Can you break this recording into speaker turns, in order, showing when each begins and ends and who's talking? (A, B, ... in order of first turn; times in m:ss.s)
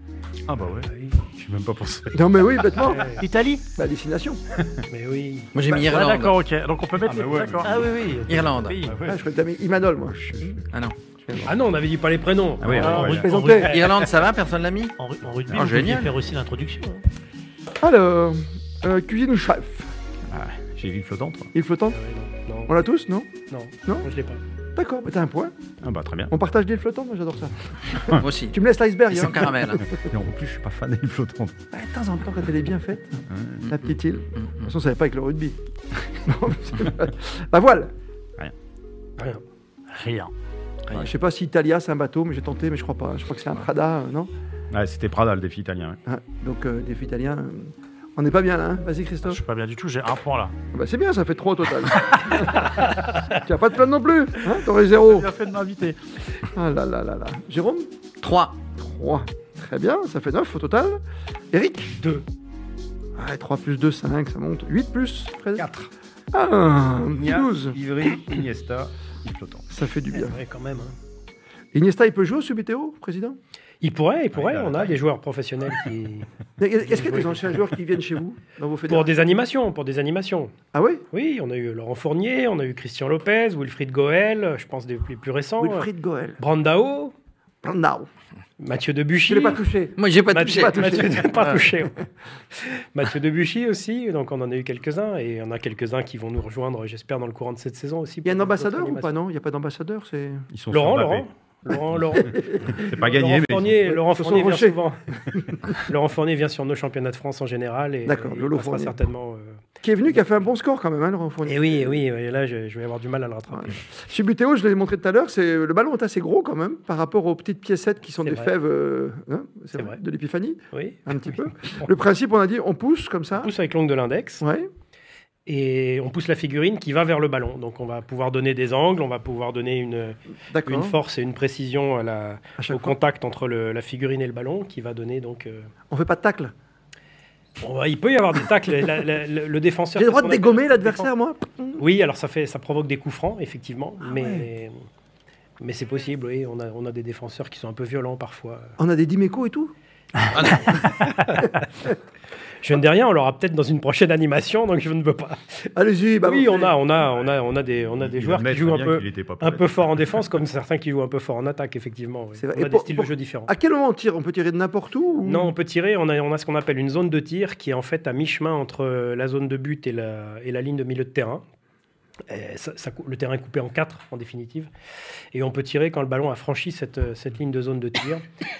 0:00.5-0:02.7 A
0:00.8-0:01.3 B
0:02.1-0:03.2 C
0:02.8-0:03.2 B
0:03.2-0:03.6 D
0:03.8-0:04.4 C
0:04.6-0:04.9 A
0:04.9-0:05.5 B
0:05.5-0:06.4 E
0:05.7-0:05.9 C
0:05.8-0:07.7 D
0:07.0-0:07.8 A
0:07.6-0:08.8 F
0:08.3-0:08.8 E
0:08.6-0:09.0 D
0:08.8-0:09.2 A
0:09.1-0:10.6 C
0:10.2-0:10.6 A
0:11.4-0:13.9 B
0:12.6-0:13.3 A
0:12.7-0:13.8 F
0:12.8-0:13.8 C
0:13.6-0:15.0 E
0:15.0-0:17.0 F
0:15.5-0:15.8 A
0:15.5-0:16.1 E
0:17.8-0:19.9 C
0:20.3-0:21.5 A
0:21.5-0:22.0 C
0:21.9-0:22.7 B
0:22.7-0:23.3 C
0:23.5-0:24.4 B
0:24.8-0:25.5 C
0:25.8-0:26.3 A
0:26.3-0:30.0 C
0:28.2-0:28.6 E
0:29.1-0:29.8 E
0:29.9-0:31.6 A
0:31.7-0:35.6 C
0:33.3-0:33.7 A
0:34.4-0:34.7 E
0:36.1-0:37.9 C
0:39.2-0:39.4 B
0:39.9-0:40.3 D
0:40.9-0:44.3 C
0:44.7-0:46.0 A
0:46.1-0:49.4 C
0:49.2-0:50.5 D
0:50.7-0:55.3 C
0:55.0-0:56.0 D
0:56.5-0:57.9 C
0:58.2-0:58.6 E
0:58.8-1:01.0 C
1:01.5-1:01.9 C
1:01.9-1:02.2 B
1:03.2-1:05.7 C
1:05.6-1:05.9 A
1:06.3-1:07.8 C
1:07.1-1:09.7 A
1:09.7-1:10.4 C
1:10.1-1:11.0 B
1:11.7-1:13.4 C
1:13.8-1:16.3 B
1:14.3-1:15.0 A
1:16.6-1:19.1 C
1:16.8-1:17.6 B
1:18.9-1:20.5 B
1:20.7-1:21.0 C
1:21.1-1:27.1 B
1:25.6-1:26.4 C
1:27.6-1:28.1 C
1:28.6-1:29.6 B
1:29.3-1:31.4 C
1:30.0-1:31.6 E
1:30.3-1:39.1 B
1:38.2-1:40.5 C
1:40.5-1:41.3 A
1:40.7-1:45.0 B
1:42.1-1:43.9 A
1:42.2-1:43.0 C
1:43.9-1:45.7 C
1:45.8-1:49.6 B
1:48.0-1:49.0 C
1:49.8-1:52.0 C
1:51.5-1:53.8 B
1:53.5-2:03.5 C
1:58.2-1:58.5 B
2:00.7-2:01.9 B
2:03.4-2:04.4 B
2:04.4-2:04.7 C
2:05.5-2:15.7 B
2:10.5-2:11.0 C
2:12.6-2:13.0 C
2:15.9-2:16.5 C
2:17.6-2:21.1 B
2:20.0-2:21.8 C
2:21.8-2:24.8 B
2:24.0-2:24.5 C
2:25.6-2:28.7 B
2:28.8-2:29.7 C
2:30.3-2:30.8 C
2:31.3-2:31.6 B
2:32.6-2:35.7 B
2:35.8-2:36.8 C
2:36.2-2:43.5 B
2:38.0-2:40.0 A
2:42.4-2:45.5 C
2:45.2-2:51.4 B
2:52.3-2:54.7 B
2:55.3-2:58.2 B